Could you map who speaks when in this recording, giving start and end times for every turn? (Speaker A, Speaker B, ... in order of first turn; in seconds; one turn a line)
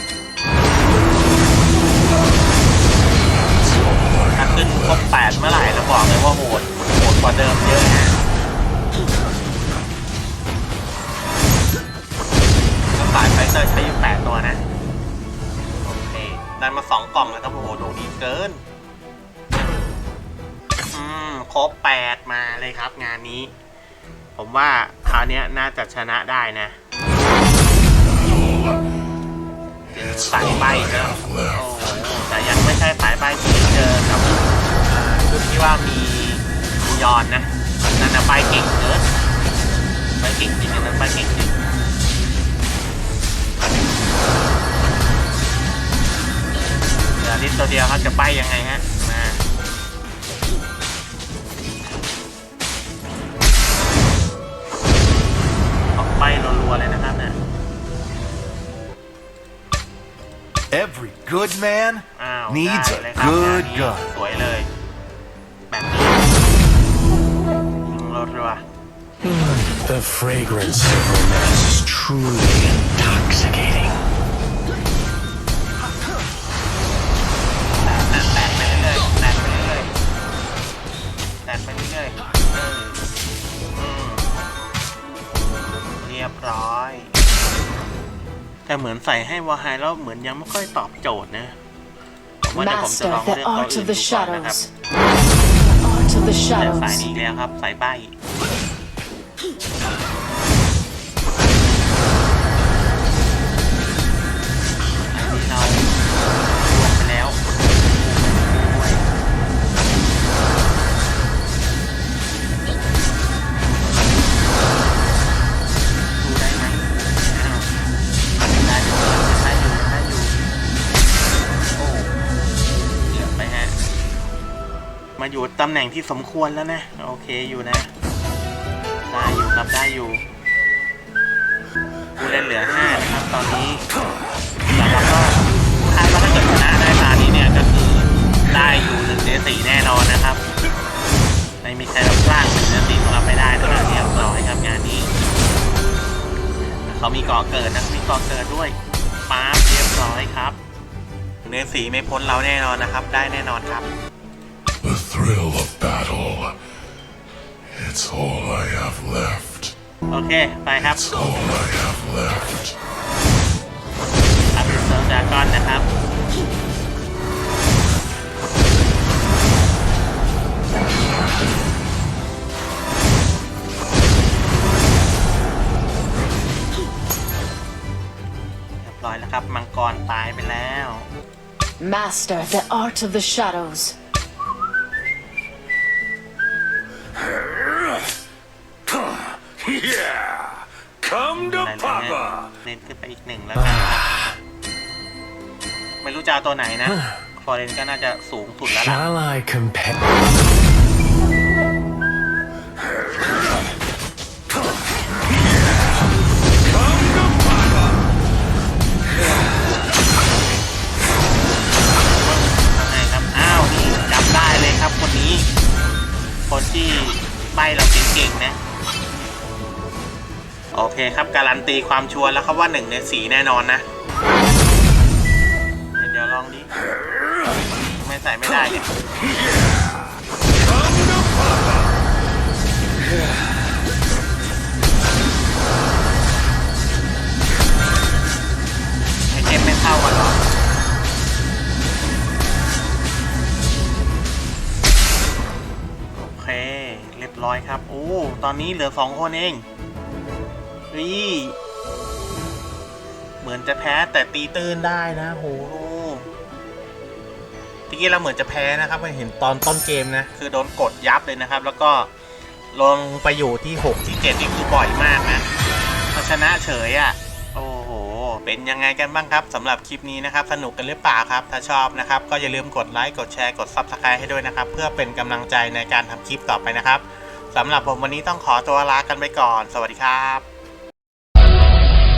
Speaker A: 4.1-4.3
Speaker B: 4.3-8.2
Speaker B: 12.9-14.6
Speaker B: 15.8-18.6
Speaker B: 20.9-23.5
Speaker B: 24.4-26.8
Speaker A: 28.1-28.7
Speaker B: 29.9-39.0
Speaker A: 30.3-31.5
Speaker B: 40.2-41.6
Speaker B: 47.1-49.4
Speaker B: 56.0-57.4
Speaker C: 60.7-64.1
Speaker B: 62.1-64.7
Speaker B: 65.7-66.3
Speaker B: 67.8-68.6
Speaker D: 69.2-74.0
Speaker B: 77.8-79.9
Speaker B: 81.4-83.0
Speaker B: 83.7-84.3
Speaker B: 85.7-87.2
Speaker B: 88.7-91.6
Speaker B: 92.4-94.6
Speaker E: 92.5-94.7
Speaker E: 95.5-97.1
Speaker B: 96.5-98.1
Speaker B: 105.1-109.1
Speaker B: 116.2-117.8
Speaker B: 118.5-120.4
Speaker B: 121.7-122.2
Speaker B: 123.1-123.8
Speaker B: 125.2-127.9
Speaker B: 129.1-130.2
Speaker B: 132.2-133.9
Speaker B: 134.7-140.4
Speaker B: 141.6-145.1
Speaker B: 146.9-148.8
Speaker B: 149.3-150.6
Speaker B: 151.4-153.9
Speaker A: 154.8-156.6
Speaker A: 157.7-159.7
Speaker B: 160.1-161.3
Speaker A: 161.1-162.5
Speaker B: 164.5-165.9
Speaker B: 178.8-181.1
Speaker E: 181.8-183.9
Speaker B: 191.3-194.1
Speaker D: 193.6-194.3
Speaker B: 196.0-199.1
Speaker D: 198.7-199.9
Speaker B: 212.1-215.5
Speaker B: 216.5-218.6
Speaker B: 220.7-223.8
Speaker B: 226.0-226.7
Speaker B: 228.0-228.9
Speaker B: 239.3-240.4
Speaker B: 246.1-249.7
Speaker B: 250.9-251.6
Speaker B: 253.4-256.3
Speaker B: 257.9-262.1
Speaker B: 262.7-265.5
Speaker B: 266.1-280.4